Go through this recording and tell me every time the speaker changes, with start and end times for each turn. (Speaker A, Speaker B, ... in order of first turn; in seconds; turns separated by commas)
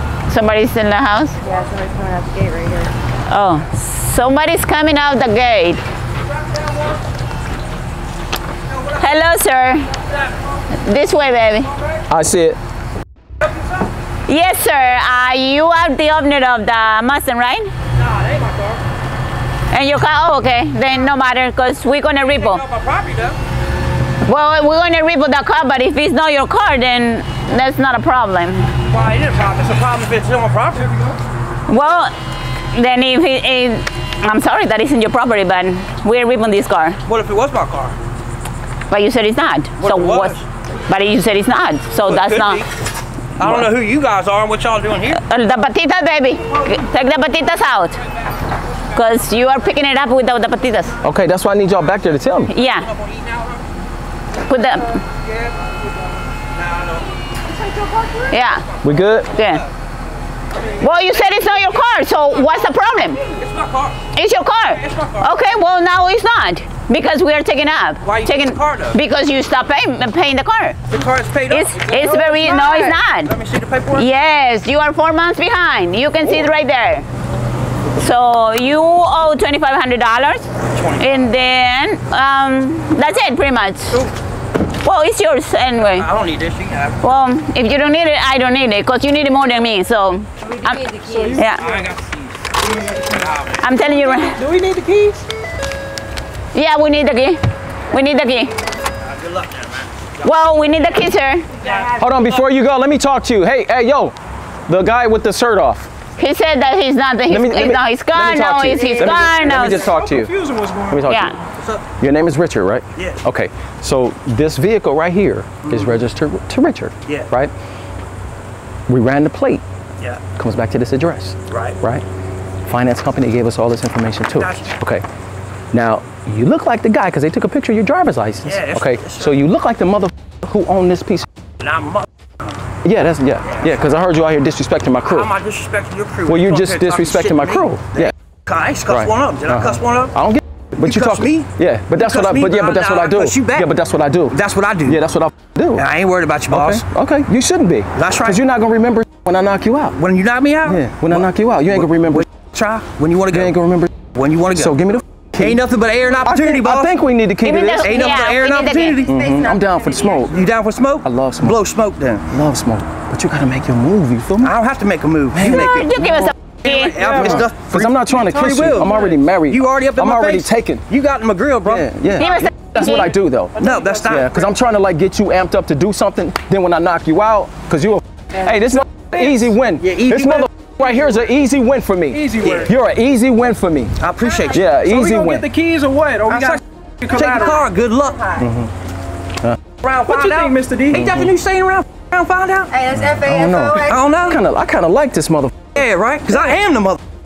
Speaker A: 0.3-1.4, Speaker B: 1.4-2.9, Speaker A: 3.3-5.8, Speaker C: 8.7-9.1, Speaker A: 8.9-9.9, Speaker A: 10.7-11.7, Speaker D: 12.1-12.6, Speaker C: 13.4-13.7, Speaker A: 14.3-17.7, Speaker C: 17.9-18.8, Speaker A: 19.7-22.6, Speaker C: 22.2-23.4, Speaker A: 24.3-28.7, Speaker C: 28.9-31.2, Speaker A: 31.7-32.1, Speaker A: 32.7-37.0, Speaker C: 37.0-38.0, Speaker A: 38.9-42.6, Speaker C: 39.8-40.5, Speaker C: 42.0-42.7, Speaker C: 43.4-45.2, Speaker D: 43.4-43.7, Speaker A: 45.1-48.0, Speaker A: 48.9-51.0, Speaker D: 51.0-52.5, Speaker A: 52.5-52.9, Speaker C: 52.5-53.7, Speaker A: 54.5-55.0, Speaker C: 56.5-57.2, Speaker E: 57.4-58.3, Speaker A: 58.3-58.6, Speaker C: 58.5-59.7, Speaker D: 58.8-59.3, Speaker A: 59.3-59.6, Speaker A: 60.8-63.2, Speaker C: 60.9-61.6, Speaker C: 63.2-64.0, Speaker A: 64.1-70.8, Speaker C: 64.7-65.5, Speaker C: 68.0-69.0, Speaker C: 70.9-74.1, Speaker A: 71.5-73.3, Speaker A: 73.9-77.1, Speaker A: 78.0-84.0, Speaker C: 80.7-81.4, Speaker A: 84.8-86.1, Speaker C: 85.8-87.1, Speaker A: 87.0-91.6, Speaker B: 90.4-91.7, Speaker E: 91.1-91.9, Speaker C: 91.6-93.8, Speaker A: 93.6-94.4, Speaker E: 93.9-95.3, Speaker A: 96.5-98.5, Speaker C: 99.0-100.3, Speaker A: 100.2-101.5, Speaker C: 101.6-102.5, Speaker B: 101.6-101.9, Speaker D: 102.0-104.2, Speaker D: 104.7-105.9, Speaker A: 106.2-109.9, Speaker D: 107.3-110.3, Speaker B: 108.7-109.8, Speaker E: 109.8-111.0, Speaker D: 110.9-111.4, Speaker A: 111.1-111.4, Speaker C: 111.6-111.9, Speaker D: 112.0-117.5, Speaker C: 113.0-113.2, Speaker C: 115.6-116.0, Speaker D: 118.9-119.6, Speaker C: 120.0-120.2, Speaker D: 120.3-122.0, Speaker C: 121.5-121.8, Speaker D: 122.7-125.0, Speaker C: 124.3-124.7, Speaker D: 125.7-131.3, Speaker C: 128.4-129.4, Speaker C: 131.6-132.1, Speaker D: 132.8-135.3, Speaker C: 135.1-140.1, Speaker D: 136.3-138.1, Speaker D: 138.9-145.9, Speaker C: 140.8-143.7, Speaker C: 144.3-145.0, Speaker C: 145.8-146.8, Speaker D: 146.5-150.0, Speaker C: 148.0-148.4, Speaker C: 150.0-153.6, Speaker D: 150.6-152.3, Speaker D: 153.3-155.6, Speaker C: 154.1-154.8, Speaker C: 155.4-157.0, Speaker D: 156.2-157.9, Speaker A: 157.4-159.0, Speaker C: 157.8-159.1, Speaker B: 159.0-160.5, Speaker D: 159.0-160.4, Speaker C: 160.2-162.3, Speaker D: 161.0-161.6, Speaker D: 162.3-164.6, Speaker C: 164.4-165.9, Speaker D: 165.3-166.3, Speaker A: 165.5-166.9, Speaker C: 166.5-168.9, Speaker E: 167.0-167.4, Speaker D: 167.1-170.9, Speaker E: 168.2-169.2, Speaker C: 169.4-172.3, Speaker D: 171.7-184.0, Speaker A: 172.2-173.2, Speaker E: 173.6-174.2, Speaker C: 173.6-174.5, Speaker C: 179.8-180.7, Speaker E: 182.1-182.7, Speaker C: 182.4-182.7, Speaker C: 184.0-184.7, Speaker B: 184.2-184.8, Speaker D: 184.5-185.5, Speaker E: 184.8-187.6, Speaker C: 186.3-188.4, Speaker B: 187.2-188.4, Speaker D: 188.4-188.7, Speaker C: 189.8-192.7, Speaker E: 190.0-191.0, Speaker D: 190.9-191.3, Speaker B: 192.7-194.0, Speaker D: 192.9-195.8, Speaker C: 193.8-194.4, Speaker C: 195.8-197.0